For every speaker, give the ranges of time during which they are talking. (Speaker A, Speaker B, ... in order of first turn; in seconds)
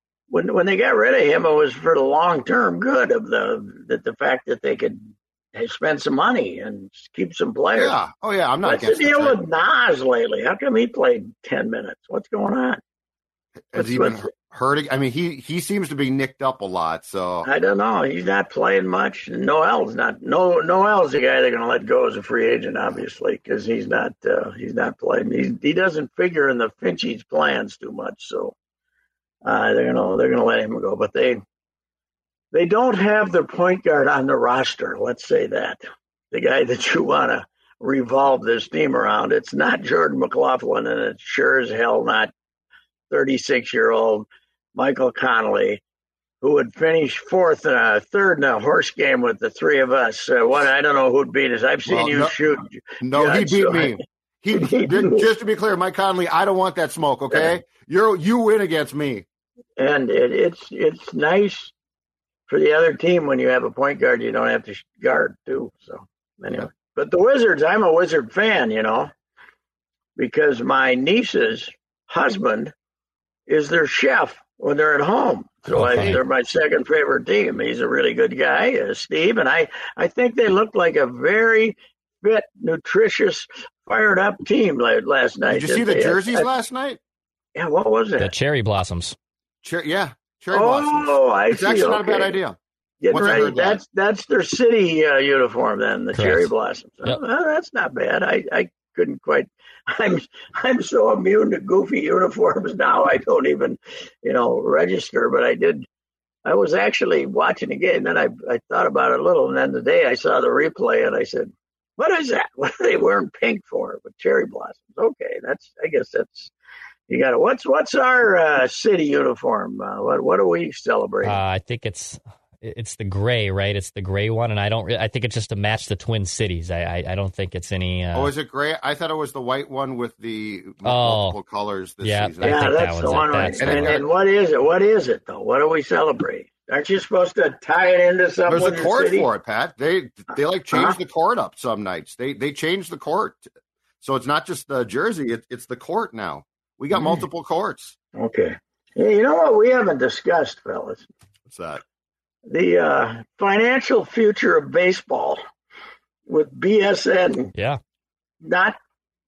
Speaker A: 0.3-8.0, 8.6-12.8, 13.7-14.3, 17.4-28.5, 29.4-31.4, 32.5-42.3, 43.1-45.8, 46.4-54.0, 54.5-55.2, 59.8-61.7, 62.5-69.1, 70.2-72.7, 73.5-86.5, 87.5-88.3, 90.5-92.4, 93.0-105.8, 106.4-116.5, 117.1-121.4, 132.4-139.2, 148.2-151.1, 152.5-155.4, 156.3-157.5, 158.4-158.8
Speaker B: 7.7-9.4, 13.7-17.5, 51.9-52.3, 53.0-59.2, 85.5-87.0, 89.6-92.6, 93.1-93.8, 128.1-134.0, 138.5-143.4, 144.0-147.9, 151.4-151.8
Speaker C: 75.7-76.2, 88.2-89.2, 96.1-96.5, 121.2-128.3, 130.8-131.3, 132.0-134.0, 157.5-157.8